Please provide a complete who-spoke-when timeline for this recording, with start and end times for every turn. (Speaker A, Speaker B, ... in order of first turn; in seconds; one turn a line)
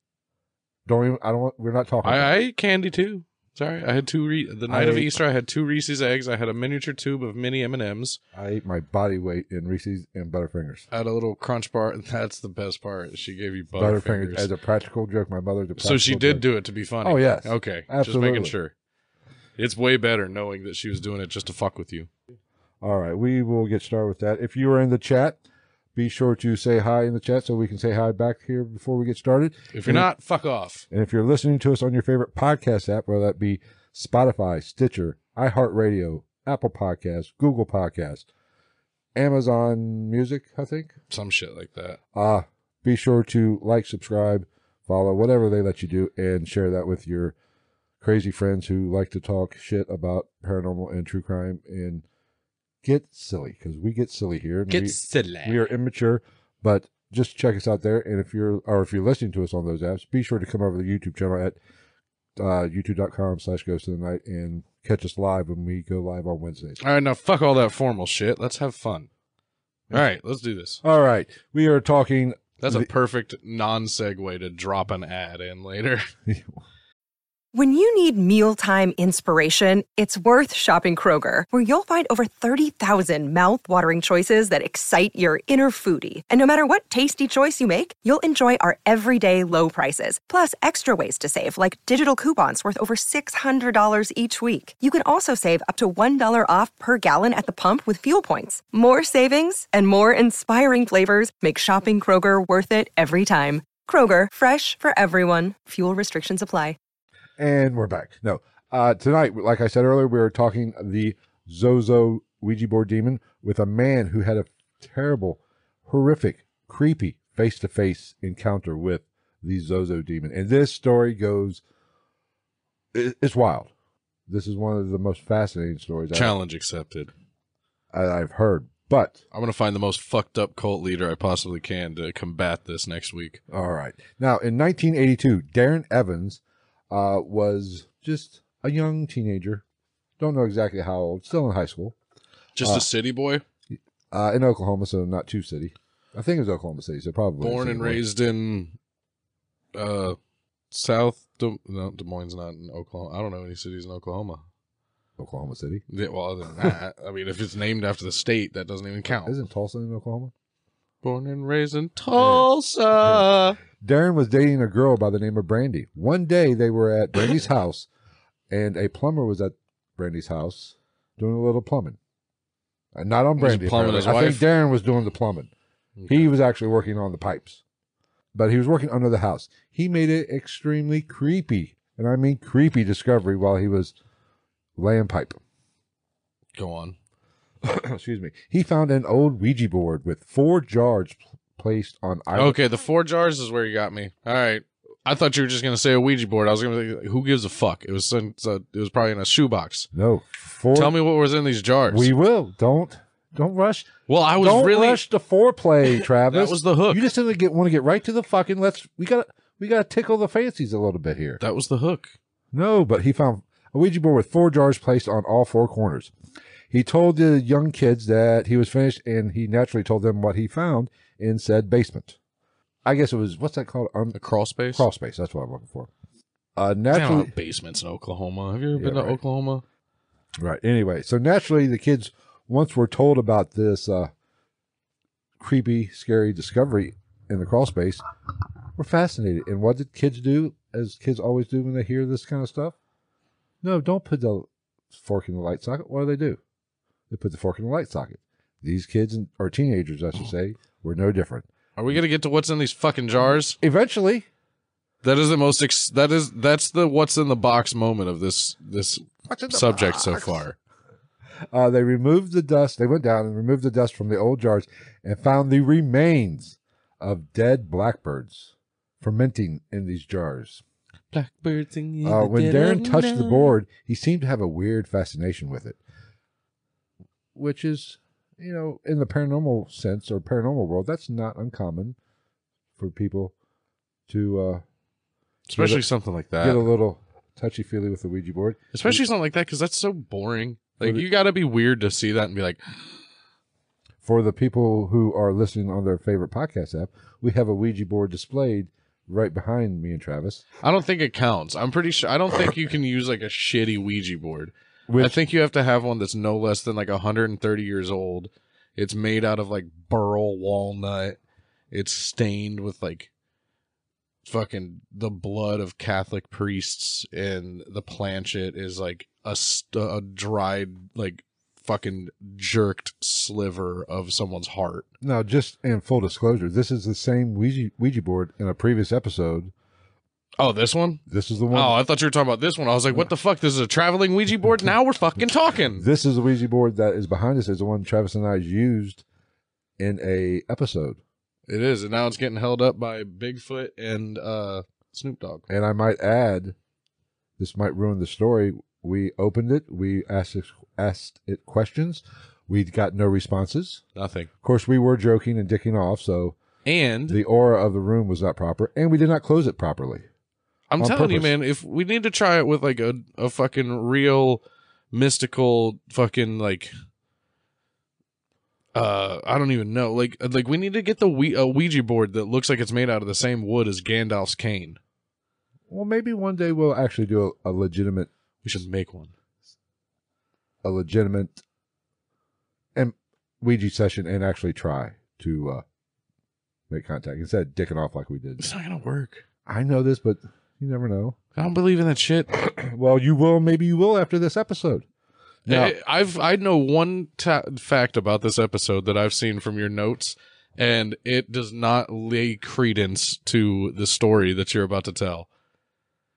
Speaker A: 0.9-2.3
Speaker B: 2.0-8.2
Speaker A: 4.7-5.2
Speaker A: 8.3-10.9
Speaker B: 10.9-14.5
Speaker A: 13.8-16.5
Speaker B: 15.8-18.7
Speaker A: 17.0-18.6
Speaker B: 19.6-22.1
Speaker A: 22.8-25.4
Speaker A: 25.9-30.1
Speaker B: 29.7-30.9
Speaker A: 30.9-38.2
Speaker A: 39.1-41.0
Speaker B: 41.1-42.0
Speaker A: 42.1-47.4
Speaker A: 48.0-52.0
Speaker A: 52.8-61.6
Speaker B: 54.7-55.6
Speaker A: 62.4-66.8
Speaker B: 66.8-69.1
Speaker B: 69.9-70.8
Speaker A: 70.8-72.9
Speaker B: 72.6-76.1
Speaker A: 76.3-76.5
Speaker C: 77.5-106.8
Speaker A: 107.4-121.6
Speaker A: 122.9-123.7
Speaker A: 124.3-126.4
Speaker B: 126.1-127.1
Speaker A: 127.9-129.2
Speaker B: 129.3-133.4
Speaker A: 133.5-139.6
Speaker A: 140.2-142.0
Speaker B: 142.6-143.4
Speaker A: 142.6-142.9
Speaker A: 143.7-148.0
Speaker B: 147.4-148.8
Speaker B: 149.7-150.2
Speaker B: 150.7-154.4
Speaker A: 155.2-155.8
Speaker B: 155.9-159.3
Speaker A: 159.2-160.3
Speaker B: 161.0-163.6
Speaker A: 162.2-162.5
Speaker A: 163.0-167.9
Speaker A: 168.5-172.0
Speaker A: 172.9-175.5
Speaker B: 173.4-174.5
Speaker B: 176.0-176.3
Speaker A: 176.1-177.6
Speaker A: 178.3-183.9
Speaker A: 184.8-185.4
Speaker B: 186.6-187.0
Speaker A: 187.6-192.6
Speaker B: 192.3-199.9
Speaker A: 199.9-201.0
Speaker B: 200.7-202.1
Speaker A: 201.9-211.4
Speaker B: 204.1-205.0
Speaker B: 205.8-207.1
Speaker B: 211.4-212.2
Speaker A: 212.5-216.1
Speaker A: 216.7-222.2
Speaker A: 222.8-224.2
Speaker B: 224.1-224.9
Speaker A: 224.7-225.9
Speaker A: 226.6-227.3
Speaker B: 226.9-229.6
Speaker A: 228.7-229.2
Speaker A: 230.4-234.1
Speaker A: 235.4-238.0
Speaker A: 238.8-242.8
Speaker A: 243.6-246.4
Speaker A: 247.1-251.5
Speaker B: 251.8-253.6
Speaker A: 253.6-254.3
Speaker B: 255.0-260.6
Speaker A: 259.3-260.4
Speaker A: 261.5-270.6
Speaker B: 271.1-273.6
Speaker A: 272.0-275.8
Speaker A: 277.4-282.0
Speaker A: 282.8-283.3
Speaker A: 284.1-284.6
Speaker B: 285.5-286.7
Speaker A: 285.6-285.9
Speaker A: 286.4-289.0
Speaker B: 288.7-293.0
Speaker A: 294.0-300.5
Speaker B: 300.6-311.2
Speaker A: 304.9-305.2
Speaker B: 311.7-313.1
Speaker B: 314.2-324.9
Speaker A: 325.0-329.5
Speaker B: 330.4-335.9
Speaker A: 331.1-331.8
Speaker A: 335.8-339.0
Speaker A: 339.8-341.0
Speaker B: 341.5-345.4
Speaker A: 345.5-346.6
Speaker A: 347.4-353.8
Speaker B: 353.9-354.3
Speaker A: 354.4-356.4
Speaker B: 356.6-357.2
Speaker A: 357.1-360.1
Speaker B: 360.7-366.7
Speaker A: 360.8-361.3
Speaker B: 368.7-374.8
Speaker A: 375.7-378.1
Speaker B: 378.4-379.1
Speaker A: 380.6-381.4
Speaker A: 382.8-385.6
Speaker A: 386.7-388.5
Speaker B: 388.4-389.2
Speaker A: 389.5-391.2
Speaker B: 391.4-392.3
Speaker A: 392.3-394.9
Speaker A: 395.5-395.8
Speaker B: 395.5-405.3